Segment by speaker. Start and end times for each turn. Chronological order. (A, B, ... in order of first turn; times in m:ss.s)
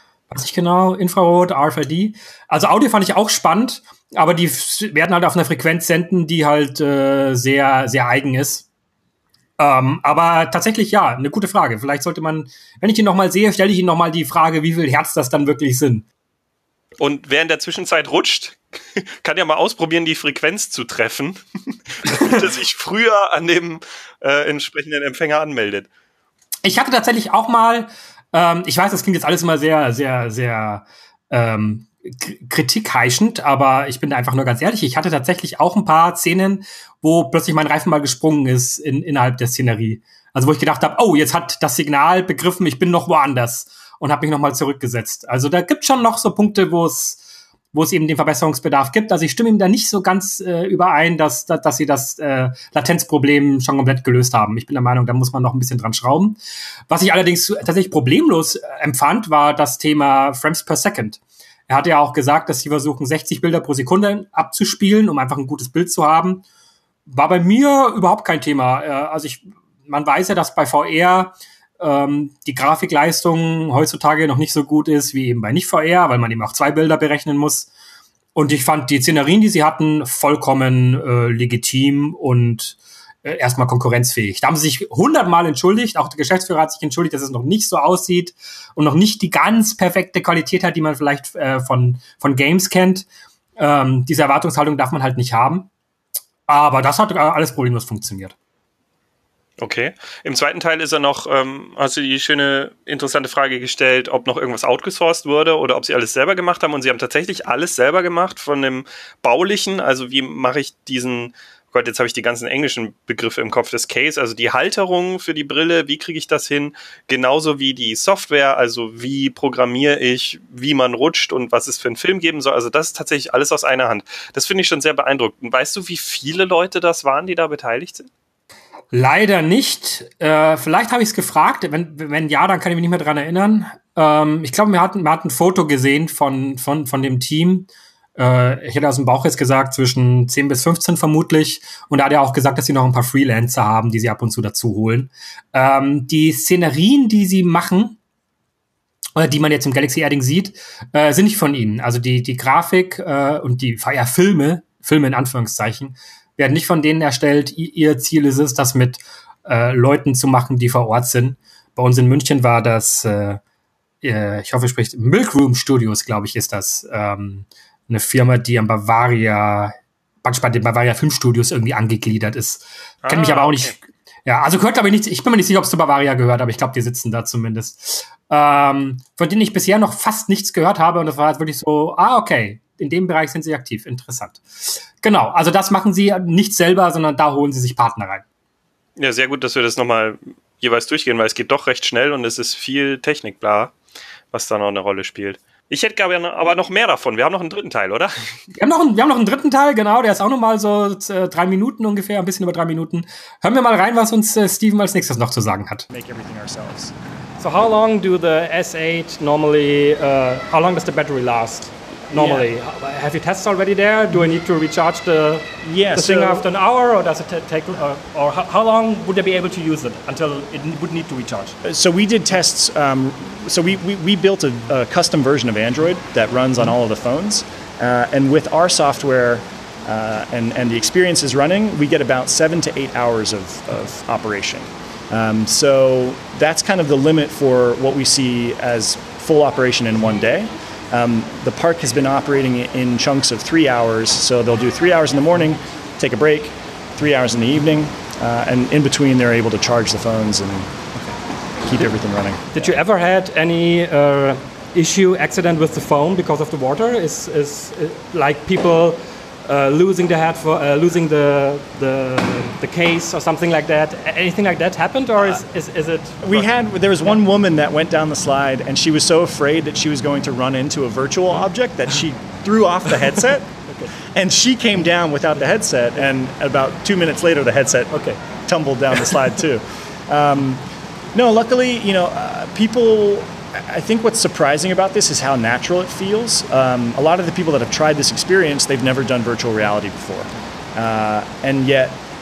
0:00.3-0:08.6 A
0:09.6-0:16.0 A
0:17.0-0:25.9 B
0:26.6-0:56.4 A
0:56.9-1:06.4 A
1:07.1-1:17.7 A
1:18.3-1:33.1 A
1:33.6-1:35.7 A
1:36.5-1:38.3 A
1:39.6-2:08.1 B
2:08.9-2:28.0 A
2:29.2-2:43.4 A
2:44.0-3:04.4 A
2:53.0-2:53.8 B
3:05.0-3:08.2 A
3:09.0-3:13.7 B
3:14.3-3:18.1 B
3:18.5-3:25.9 A
3:25.9-3:26.9 C
3:27.4-3:41.6 D
3:32.1-3:32.5 C
3:35.6-3:36.4 C
3:41.6-4:10.7 C
4:11.6-4:12.7 C
4:12.5-4:26.5 D
4:26.2-4:40.6 C
4:37.9-4:38.2 D
4:41.1-4:52.0 C